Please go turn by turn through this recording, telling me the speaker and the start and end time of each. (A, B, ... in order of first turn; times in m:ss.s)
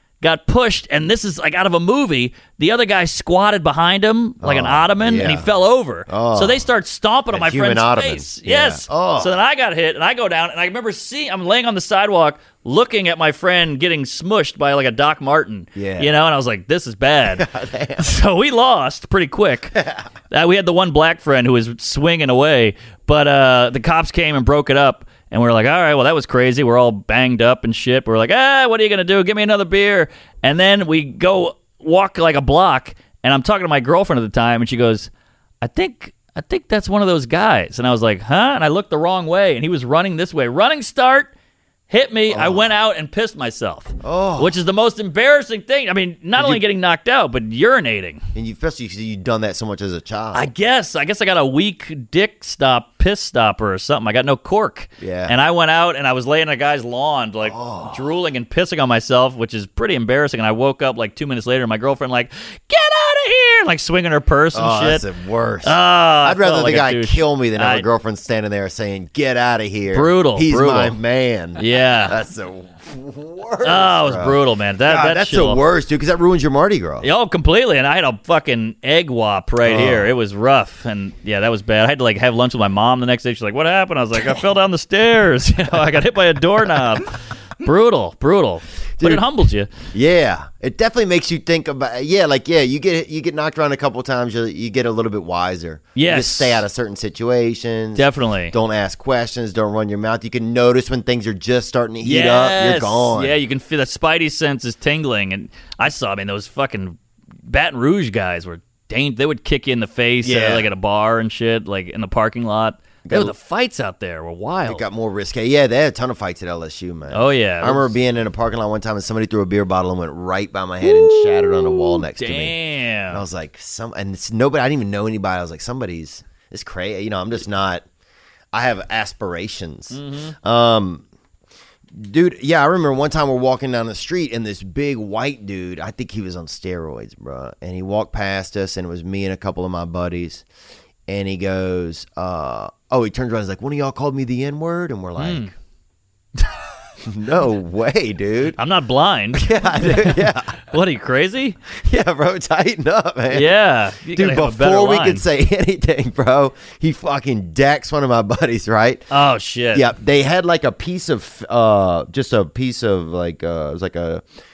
0:00.2-0:17.4 A
0:04.4-0:05.5 B
0:06.1-0:06.6 B
0:07.3-0:09.3 B
0:15.8-0:16.1 B
0:17.4-0:18.1 B
0:18.0-0:19.8 A
0:20.3-0:35.1 A
0:35.6-0:41.3 A
0:41.9-0:48.2 A
0:42.3-0:42.7 B
0:44.0-0:44.6 B
0:46.4-0:46.6 B
0:48.3-0:50.5 B
0:50.3-1:05.0 A
0:55.0-0:55.3 B
0:57.4-0:58.0 B
1:04.5-1:17.1 B
1:05.6-1:07.8 A
1:09.9-1:11.0 A
1:11.6-1:12.2 A
1:13.6-1:15.6 A
1:17.0-1:29.7 A
1:19.6-1:20.1 B
1:29.9-1:43.4 B
1:36.0-1:36.6 A
1:38.0-1:38.5 A
1:42.0-1:54.8 A
1:50.2-1:50.7 B
1:53.0-1:53.3 B
1:54.6-2:02.6 B
1:57.1-1:58.0 A
2:00.8-2:03.2 A
2:03.1-2:07.8 B
2:08.5-2:11.0 B
2:09.9-2:10.4 A
2:11.9-2:20.4 B
2:21.1-2:25.5 B
2:25.2-2:25.5 A
2:27.0-2:28.6 B
2:28.6-2:31.6 A
2:29.3-2:30.6 B
2:31.8-2:33.5 B
2:33.3-2:35.2 A
2:34.1-2:39.1 B
2:39.1-2:39.9 A
2:39.7-2:44.2 B